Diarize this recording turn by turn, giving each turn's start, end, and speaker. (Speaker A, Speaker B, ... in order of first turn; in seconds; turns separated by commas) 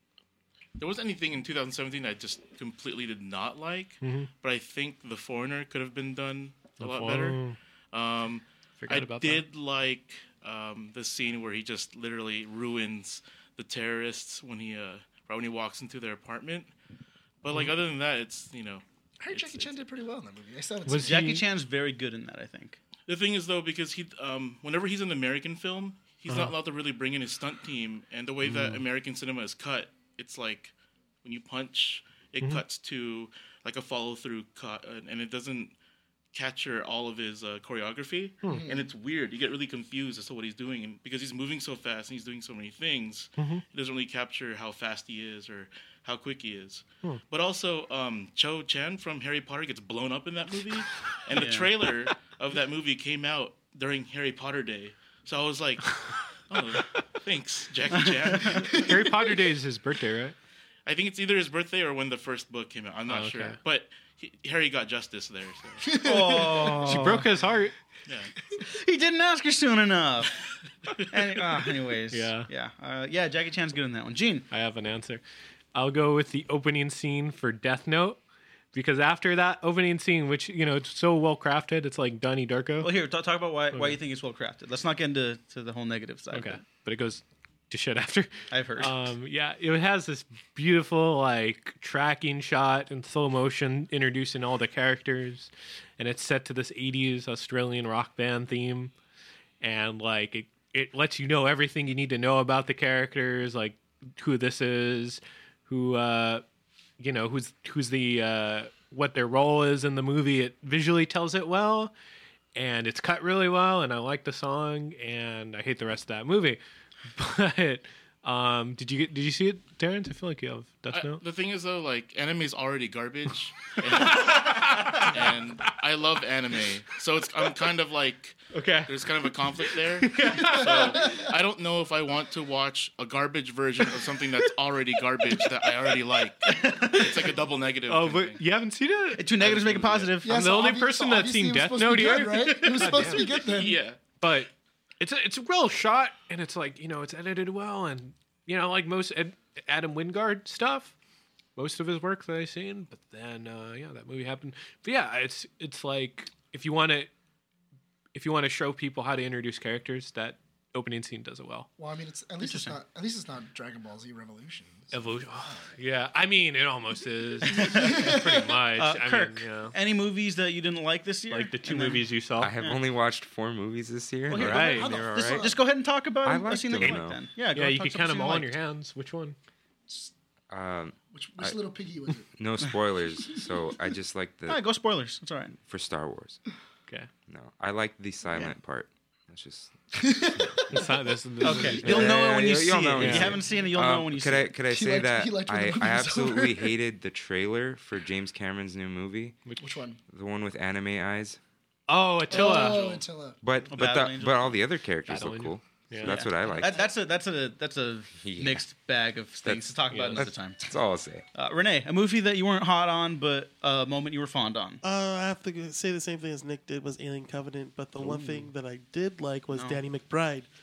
Speaker A: 0.8-16.7, Speaker B: 4.0-4.3, Speaker B: 6.8-7.6, Speaker B: 8.8-9.4, Speaker A: 17.4-19.8, Speaker C: 19.2-21.2, Speaker B: 20.9-21.4, Speaker D: 21.0-22.8, Speaker A: 23.1-35.7, Speaker B: 28.4-28.8, Speaker A: 36.3-58.9, Speaker C: 38.5-38.9, Speaker B: 43.4-43.6, Speaker D: 51.3-51.7, Speaker D: 58.0-58.6, Speaker C: 58.6-59.4, Speaker B: 58.8-60.4, Speaker A: 60.9-65.9, Speaker B: 63.1-63.6, Speaker C: 65.8-67.0, Speaker D: 66.0-67.3, Speaker B: 66.8-67.7, Speaker A: 68.1-68.3, Speaker D: 68.6-70.4, Speaker D: 71.1-74.5, Speaker B: 72.1-72.5, Speaker B: 74.5-75.2, Speaker B: 75.7-78.2, Speaker B: 78.7-82.9, Speaker D: 82.8-86.6, Speaker B: 83.7-84.0, Speaker B: 86.3-98.9, Speaker D: 88.5-89.0, Speaker B: 99.6-106.4, Speaker B: 107.0-111.9, Speaker B: 112.5-116.6, Speaker B: 117.2-121.2, Speaker A: 120.9-138.4, Speaker B: 124.0-125.3, Speaker D: 128.5-128.9, Speaker B: 130.0-131.1, Speaker C: 131.0-131.3, Speaker D: 136.4-137.3, Speaker B: 137.9-139.3, Speaker D: 139.2-140.4, Speaker A: 139.4-140.2, Speaker C: 140.2-143.8, Speaker B: 140.3-143.2, Speaker A: 142.8-144.2, Speaker B: 144.2-150.9, Speaker B: 151.6-157.1, Speaker B: 158.2-161.7, Speaker C: 161.8-165.7, Speaker D: 162.4-162.8, Speaker B: 164.9-169.8, Speaker D: 167.5-168.2, Speaker C: 167.5-168.5, Speaker D: 168.8-172.1, Speaker B: 171.3-172.5, Speaker E: 172.4-175.5, Speaker D: 174.3-178.5, Speaker B: 174.4-174.9, Speaker C: 174.4-175.5, Speaker E: 176.2-177.2, Speaker B: 176.8-179.4, Speaker E: 180.5-181.6, Speaker C: 181.1-182.3, Speaker E: 182.4-184.6, Speaker D: 184.5-185.6, Speaker E: 185.6-186.4, Speaker E: 187.3-189.8, Speaker C: 189.9-191.9, Speaker B: 190.7-192.2, Speaker D: 191.4-194.5, Speaker E: 191.8-199.4, Speaker B: 193.0-193.4, Speaker C: 194.7-196.7, Speaker C: 199.6-200.0, Speaker E: 200.1-201.4, Speaker B: 201.9-202.8, Speaker C: 202.3-203.4, Speaker A: 202.5-203.0, Speaker E: 203.4-206.8, Speaker D: 203.7-204.5, Speaker B: 205.1-206.1, Speaker D: 206.1-210.6, Speaker E: 208.2-208.6, Speaker E: 209.4-211.2, Speaker B: 209.9-210.3, Speaker D: 211.3-214.8, Speaker F: 214.8-220.5, Speaker D: 218.0-218.3, Speaker D: 219.5-219.8